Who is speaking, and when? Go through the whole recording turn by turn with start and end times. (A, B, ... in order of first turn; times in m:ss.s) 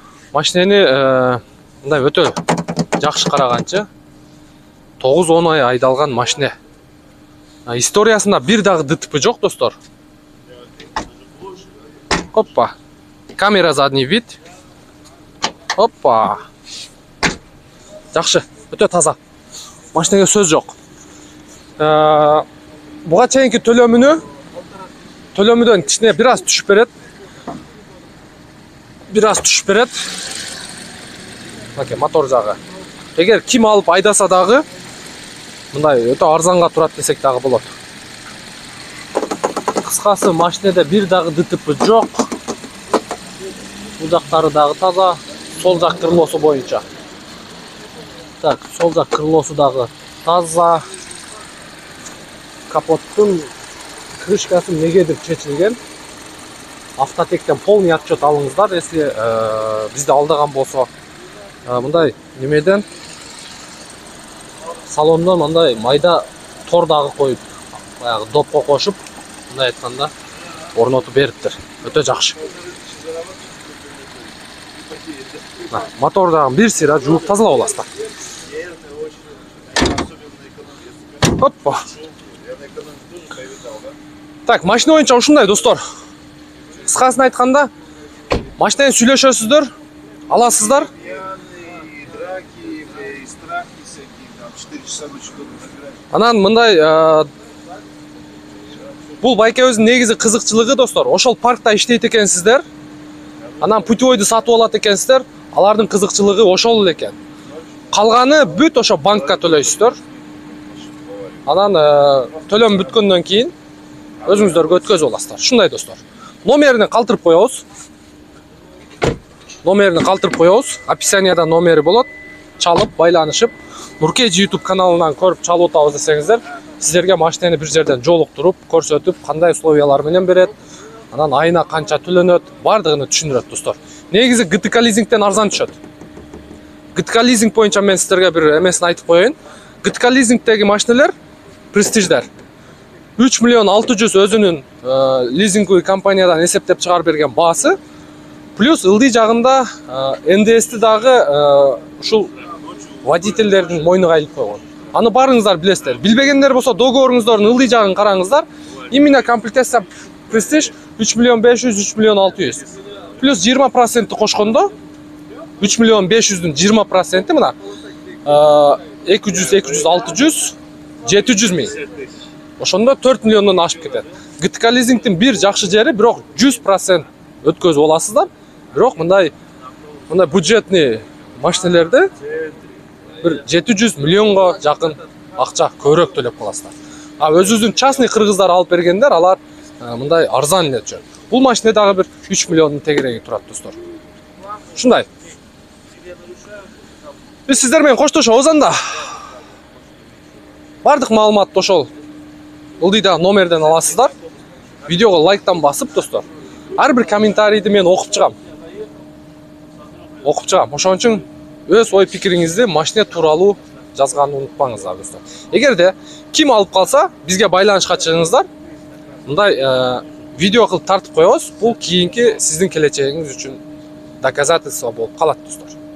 0:00.3-0:02.4 A
0:03.0-0:03.9 A
0:05.0-0:06.5 A
0:07.7-0:09.8 A
0:12.3-0:12.8 A
0:13.4-0:14.4 A
0:15.8-0:16.4 A
0:18.1-0:19.2 A
0:19.9-0:20.8 A
0:21.8-0:22.4 A
0:23.0-0:24.2 A
0:25.4-0:26.9 A
0:29.1-0:30.0 A
0:31.8-0:32.6 A
0:33.2-0:34.7 A
0:35.7-0:37.7 A
0:39.8-0:42.3 A
0:44.0-0:46.8 A
0:48.4-0:50.8 A
0:52.7-0:53.5 A
0:54.2-0:55.8 A
0:57.0-1:00.9 A
1:01.7-1:02.9 A
1:04.9-1:07.4 A
1:08.0-1:09.0 A
1:09.5-1:10.1 A
1:10.8-1:12.4 A
1:12.8-1:14.2 B
1:15.7-1:17.9 A
1:20.2-1:20.8 B
1:21.2-1:21.9 A
1:22.5-1:23.9 B
1:24.5-1:25.8 A
1:26.8-1:27.7 A
1:28.6-1:29.7 A
1:30.3-1:30.9 A
1:31.1-1:35.8 B
1:36.1-1:37.3 A
1:39.2-1:42.6 A
1:43.6-1:47.2 A
1:47.9-1:50.0 A
1:51.5-1:53.5 A
1:54.2-1:57.6 A
1:59.6-2:10.5 A
2:11.1-2:15.8 A
2:17.0-2:21.2 A
2:21.7-2:22.3 A
2:23.2-2:27.8 A
2:28.6-2:32.4 A
2:33.0-2:44.7 A
2:45.6-2:47.6 A
2:48.2-2:51.8 A
2:52.6-2:59.3 A
3:00.1-3:02.1 A
3:03.2-3:13.8 A
3:14.8-3:15.1 A
3:17.5-3:19.0 A
3:20.8-3:21.9 A
3:22.8-3:24.1 A
3:24.9-3:28.4 A
3:30.2-3:38.5 A
3:39.3-3:43.6 A
3:44.2-3:45.8 A